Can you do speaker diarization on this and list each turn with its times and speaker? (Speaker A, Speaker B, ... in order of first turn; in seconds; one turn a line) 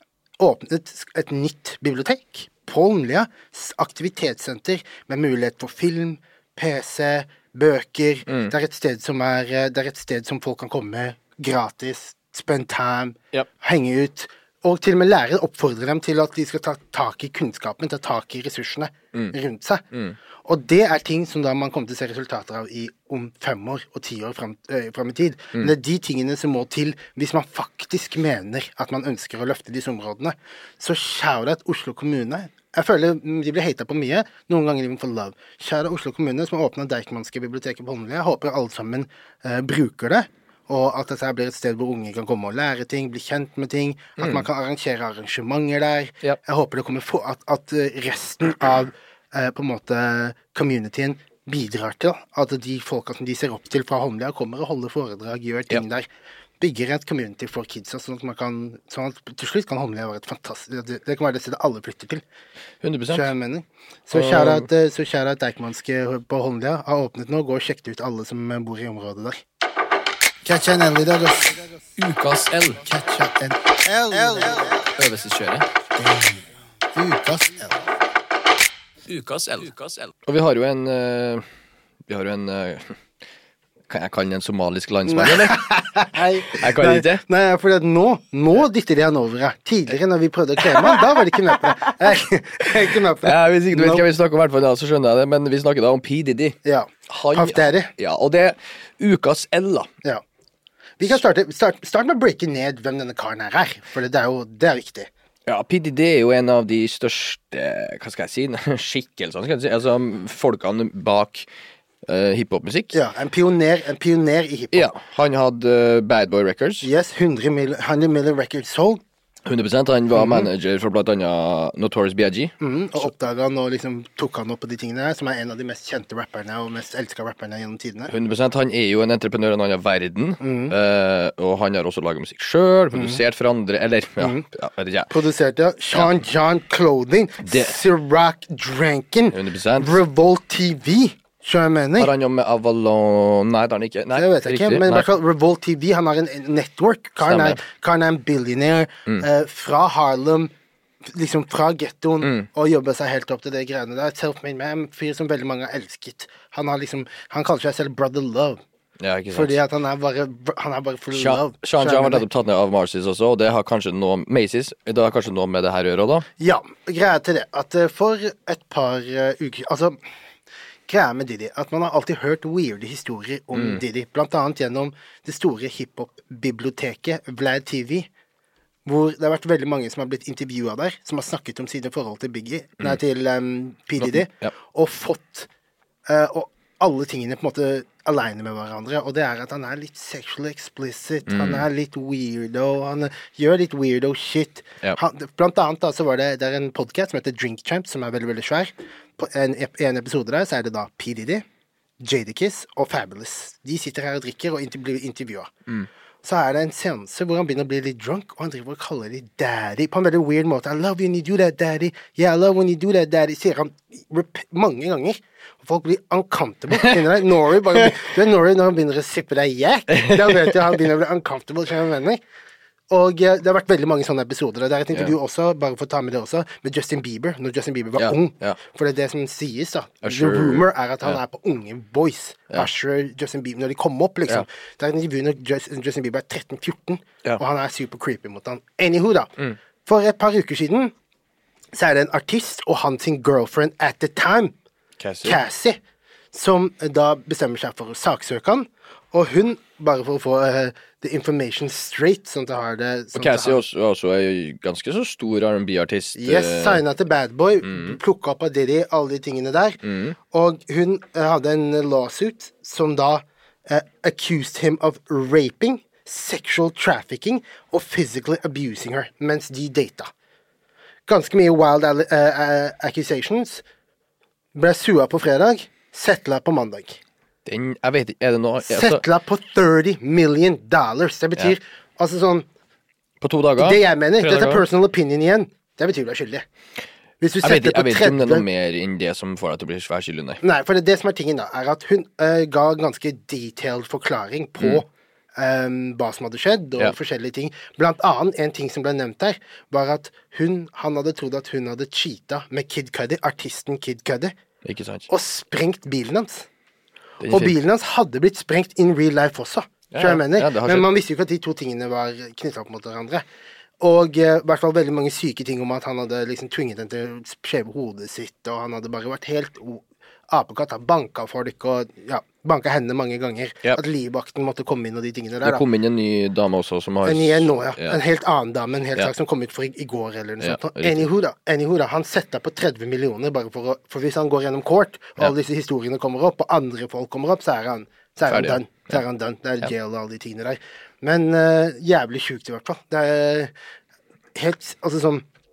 Speaker A: 0.4-19.9
Speaker B: 8.3-8.5
Speaker B: 19.9-20.2
Speaker A: 20.4-56.1
Speaker B: 44.2-44.5
Speaker A: 56.6-62.2
Speaker B: 62.8-63.3
Speaker A: 63.1-69.4
Speaker B: 64.1-64.7
Speaker A: 70.4-71.7
Speaker B: 72.0-72.9
Speaker A: 72.8-74.9
Speaker B: 74.8-75.7
Speaker A: 76.0-77.8
Speaker B: 79.1-81.4
Speaker B: 82.1-83.0
Speaker B: 83.9-86.0
Speaker A: 85.1-94.0
Speaker B: 86.5-87.2
Speaker B: 90.6-90.9
Speaker B: 91.4-92.0
Speaker B: 93.2-99.9
Speaker A: 96.6-97.9
Speaker A: 101.0-105.1
Speaker B: 105.5-111.5
Speaker B: 112.1-113.0
Speaker A: 112.9-114.9
Speaker B: 114.7-116.9
Speaker A: 116.8-119.0
Speaker B: 119.5-122.5
Speaker A: 120.2-120.5
Speaker A: 122.6-128.1
Speaker B: 128.1-135.1
Speaker A: 130.4-130.8
Speaker A: 132.9-133.2
Speaker A: 135.1-142.1
Speaker B: 137.4-137.8
Speaker B: 139.3-140.0
Speaker B: 142.0-145.1
Speaker A: 144.2-150.5
Speaker B: 147.3-147.6
Speaker A: 151.1-158.6
Speaker B: 152.2-152.5
Speaker B: 159.0-159.6
Speaker A: 159.3-162.2
Speaker B: 161.1-166.3
Speaker A: 166.4-170.0
Speaker A: 170.9-178.1
Speaker B: 173.5-173.8
Speaker A: 178.9-185.5
Speaker B: 184.0-184.5
Speaker A: 186.1-201.4
Speaker B: 191.3-191.7
Speaker A: 202.0-205.5
Speaker A: 206.2-222.2
Speaker B: 216.7-217.0
Speaker B: 217.8-218.1
Speaker B: 219.9-220.8
Speaker A: 222.9-239.3
Speaker B: 228.0-228.6
Speaker B: 230.0-231.2
Speaker A: 239.8-240.9
Speaker A: 241.7-244.6
Speaker B: 245.0-245.4
Speaker A: 245.2-245.8
Speaker A: 246.3-253.6
Speaker B: 253.2-256.8
Speaker A: 256.2-270.1
Speaker B: 257.6-258.0
Speaker B: 259.8-260.2
Speaker A: 271.1-273.6
Speaker A: 274.6-277.0
Speaker B: 277.5-279.0
Speaker A: 278.6-282.5
Speaker B: 283.2-284.6
Speaker A: 283.6-286.4
Speaker A: 287.2-288.4
Speaker B: 287.4-290.4
Speaker A: 290.4-304.4
Speaker B: 304.6-305.1
Speaker A: 305.1-306.5
Speaker B: 307.2-307.6
Speaker A: 307.3-313.2
Speaker B: 309.9-310.9
Speaker A: 313.8-325.6
Speaker B: 325.4-328.0
Speaker A: 327.1-343.5
Speaker B: 330.4-331.1
Speaker B: 338.3-339.0
Speaker A: 344.3-345.2